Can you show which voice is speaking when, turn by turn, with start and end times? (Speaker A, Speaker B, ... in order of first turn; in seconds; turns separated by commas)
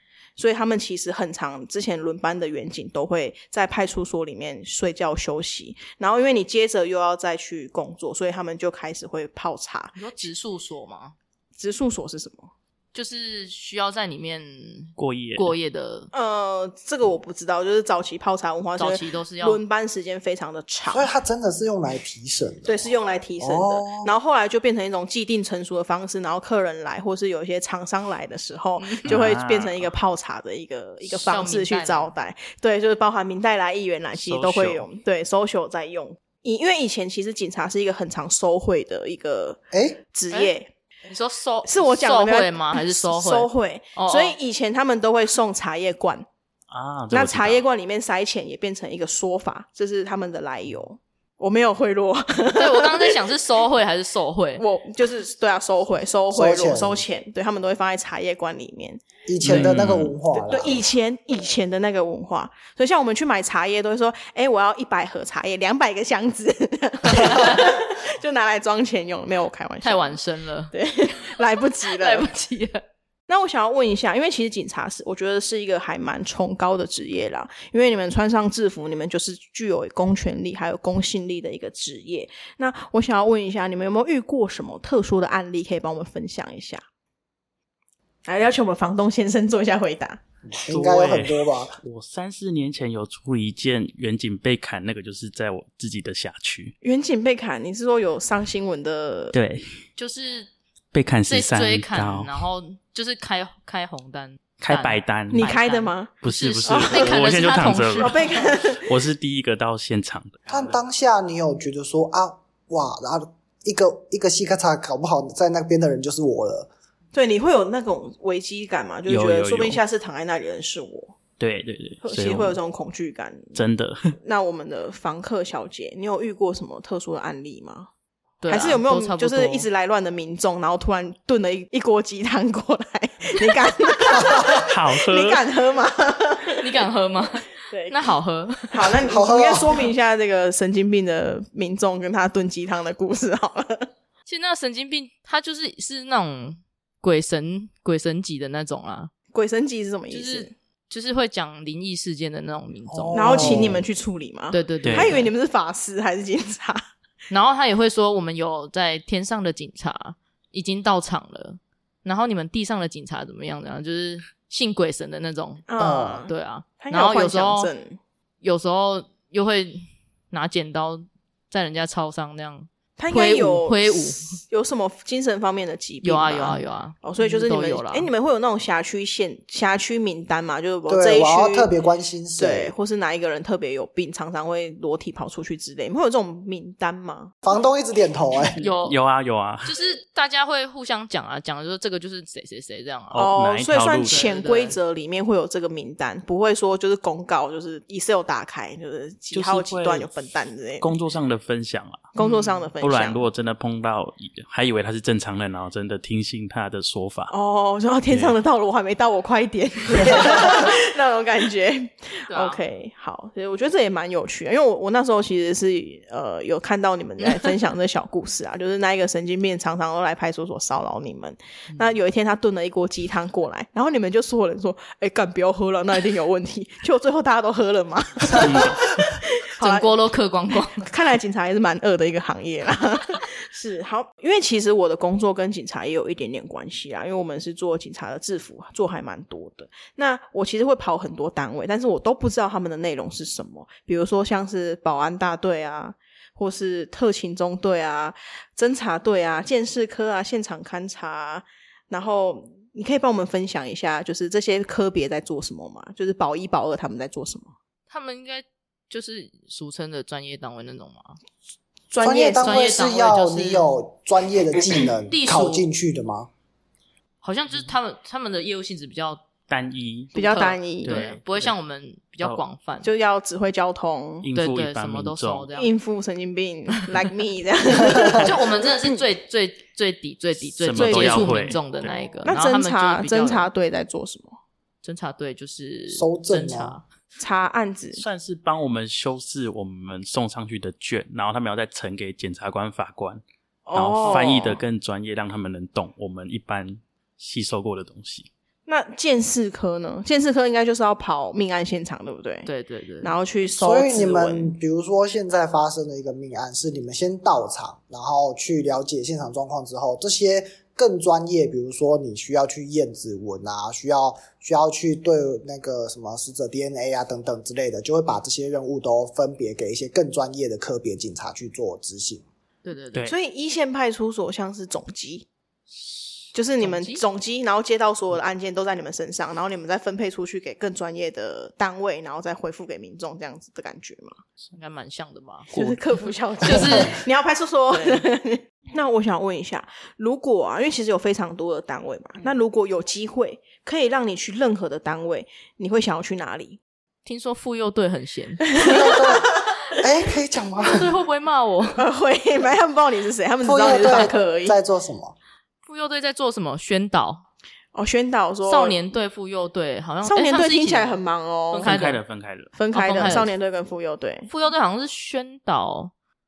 Speaker A: 0.4-10.0, Speaker B: 10.0-11.2, Speaker A: 11.6-12.5, Speaker B: 12.9-16.1, Speaker C: 15.0-15.5, Speaker A: 16.1-21.1, Speaker B: 18.8-19.6, Speaker D: 20.9-22.8, Speaker A: 22.6-40.7, Speaker D: 23.4-24.1, Speaker B: 28.8-29.1, Speaker C: 29.1-29.9, Speaker B: 31.1-32.1, Speaker C: 34.1-34.9, Speaker D: 39.7-40.0, Speaker B: 41.1-44.4, Speaker A: 41.6-46.3, Speaker C: 46.7-47.6, Speaker A: 47.1-53.2, Speaker B: 52.5-54.6, Speaker A: 54.6-59.7, Speaker D: 56.3-57.0, Speaker D: 59.3-60.8, Speaker C: 59.4-60.1, Speaker A: 60.3-70.2, Speaker B: 69.8-70.7, Speaker A: 70.7-72.3, Speaker B: 71.8-72.8, Speaker A: 73.3-86.8, Speaker A: 88.3-90.2, Speaker D: 90.5-91.8, Speaker C: 90.7-96.8, Speaker A: 96.8-99.3, Speaker C: 99.3-99.7, Speaker B: 100.0-100.5, Speaker C: 100.9-102.3, Speaker B: 101.3-108.2, Speaker C: 104.6-105.5, Speaker A: 105.3-106.2, Speaker C: 106.2-110.8, Speaker A: 106.7-107.2, Speaker A: 108.0-108.9, Speaker D: 110.5-116.7, Speaker A: 117.1-121.2, Speaker C: 119.1-119.8, Speaker C: 121.4-122.6, Speaker A: 122.0-123.6, Speaker C: 123.5-124.1, Speaker A: 124.2-127.9, Speaker B: 128.4-129.7, Speaker A: 128.5-136.6, Speaker D: 134.3-134.6, Speaker C: 134.6-135.4, Speaker B: 136.6-138.9, Speaker A: 137.7-138.0, Speaker A: 138.7-143.9, Speaker D: 139.1-139.8, Speaker B: 144.3-149.1, Speaker A: 149.3-150.5, Speaker B: 150.1-153.6, Speaker D: 152.9-153.8, Speaker A: 153.1-156.8, Speaker B: 154.5-155.3, Speaker C: 154.8-155.1, Speaker B: 157.3-165.7, Speaker A: 165.7-168.0, Speaker D: 165.8-166.3, Speaker B: 166.3-167.7, Speaker B: 168.4-174.3, Speaker A: 173.0-181.7, Speaker B: 176.0-178.1, Speaker D: 180.9-182.7, Speaker A: 182.4-187.3, Speaker D: 187.4-188.6, Speaker B: 188.6-189.0, Speaker C: 188.6-189.7, Speaker B: 189.6-193.3, Speaker C: 193.1-194.3, Speaker A: 193.2-200.9, Speaker B: 194.1-194.8, Speaker C: 199.3-200.1, Speaker C: 200.8-202.2, Speaker A: 202.2-203.2, Speaker B: 202.2-202.7, Speaker C: 202.8-207.3, Speaker A: 207.3-229.9, Speaker C: 208.1-208.3, Speaker B: 212.3-212.6, Speaker C: 228.3-228.8, Speaker B: 229.6-230.9, Speaker A: 230.8-257.5, Speaker B: 257.9-261.2, Speaker A: 261.9-262.6, Speaker D: 262.0-266.3, Speaker B: 262.4-263.7, Speaker B: 265.1-265.7, Speaker B: 267.2-269.2, Speaker C: 269.5-270.1, Speaker A: 270.1-271.0, Speaker B: 270.1-272.9, Speaker C: 270.8-271.5, Speaker A: 272.8-274.3, Speaker C: 274.2-275.5, Speaker B: 274.3-275.8, Speaker A: 275.5-279.0, Speaker B: 278.1-283.5, Speaker C: 280.6-281.9, Speaker A: 280.8-281.6, Speaker A: 282.2-284.4, Speaker B: 284.8-286.8, Speaker D: 285.9-286.8, Speaker A: 287.2-288.0, Speaker C: 288.0-293.2, Speaker A: 293.7-294.6, Speaker C: 293.8-298.3, Speaker A: 298.7-302.5, Speaker B: 302.5-303.1, Speaker A: 303.0-304.5, Speaker D: 303.6-322.2, Speaker B: 322.6-323.1, Speaker A: 323.1-325.3, Speaker A: 326.3-334.2, Speaker B: 326.6-327.0, Speaker B: 334.6-335.5, Speaker A: 335.5-346.6, Speaker C: 335.5-335.8, Speaker B: 336.4-337.0, Speaker B: 347.1-348.4, Speaker A: 348.5-349.6, Speaker D: 348.6-350.9, Speaker B: 350.6-351.8, Speaker A: 351.8-354.6, Speaker D: 353.4-355.1, Speaker B: 355.7-357.2, Speaker A: 357.7-358.8, Speaker B: 358.5-361.0, Speaker A: 360.1-361.7, Speaker B: 361.5-362.0, Speaker C: 361.6-362.5, Speaker A: 362.6-364.3, Speaker B: 362.7-363.3, Speaker B: 364.3-365.9